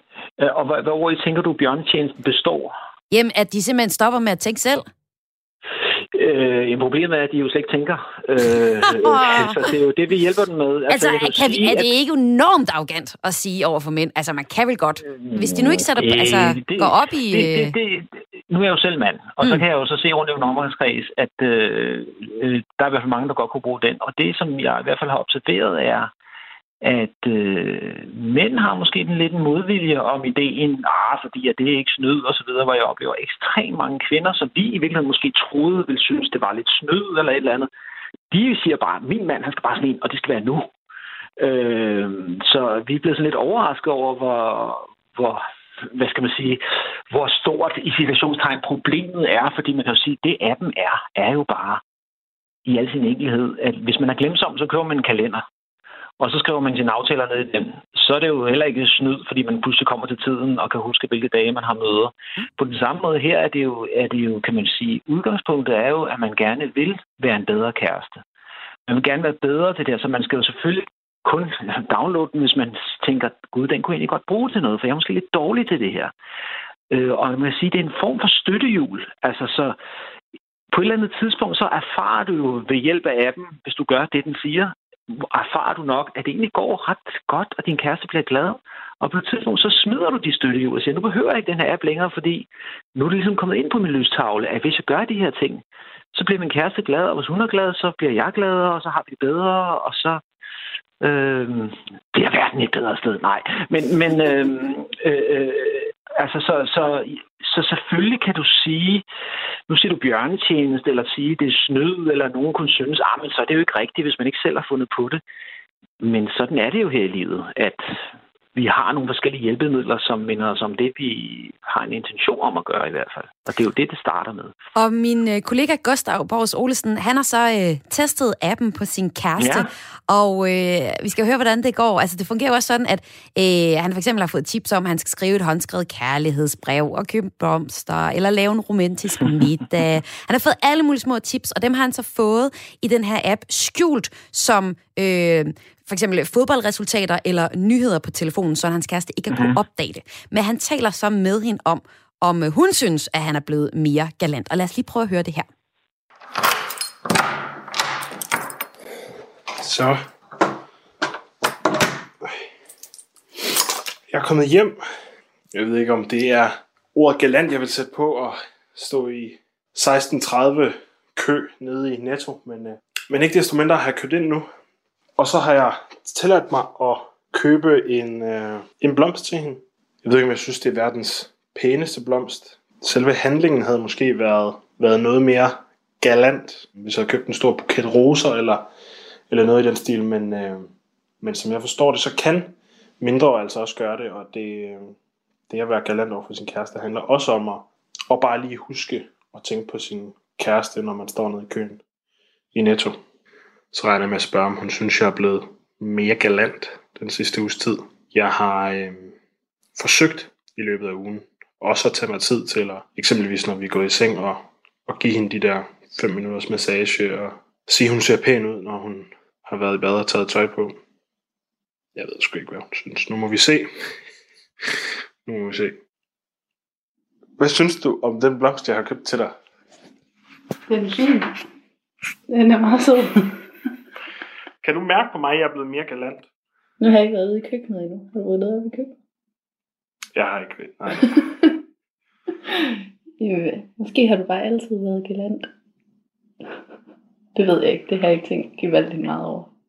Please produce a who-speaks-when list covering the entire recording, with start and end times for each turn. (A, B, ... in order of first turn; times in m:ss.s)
0:00.4-0:02.7 A
0:03.1-0:04.9 B
0:06.1-0:11.9 A
0:09.0-0:09.5 B
0:10.9-0:17.7 B
0:15.0-0:26.1 A
0:26.8-0:37.7 A
0:38.3-0:40.7 A
0:41.4-0:51.8 A
0:52.6-0:55.4 A
0:56.2-1:08.2 A
1:08.9-1:16.1 A
1:16.9-1:19.8 A
1:20.7-1:35.6 A
1:36.1-1:40.2 A
1:41.0-1:49.0 A
1:49.7-1:55.2 A
1:56.0-1:58.0 A
1:58.5-2:04.5 A
2:04.8-2:35.5 B
2:09.4-2:09.7 A
2:39.6-2:40.0 C
2:44.1-2:44.8 C
2:45.5-2:54.5 C
2:55.2-3:08.7 C
3:09.3-3:10.7 C
3:11.2-3:14.9 C
3:15.5-3:21.8 C
3:22.5-3:23.0 C
3:23.7-3:29.1 C
3:29.8-3:40.8 C
3:42.0-3:43.7 C
3:45.2-3:45.8 C
3:47.4-3:49.3 C
3:50.7-3:51.4 D
3:52.3-3:53.4 D
3:54.6-3:56.2 C
3:56.8-3:58.9 D
4:00.2-4:01.2 C
4:03.2-4:05.5 D
4:07.4-4:09.5 D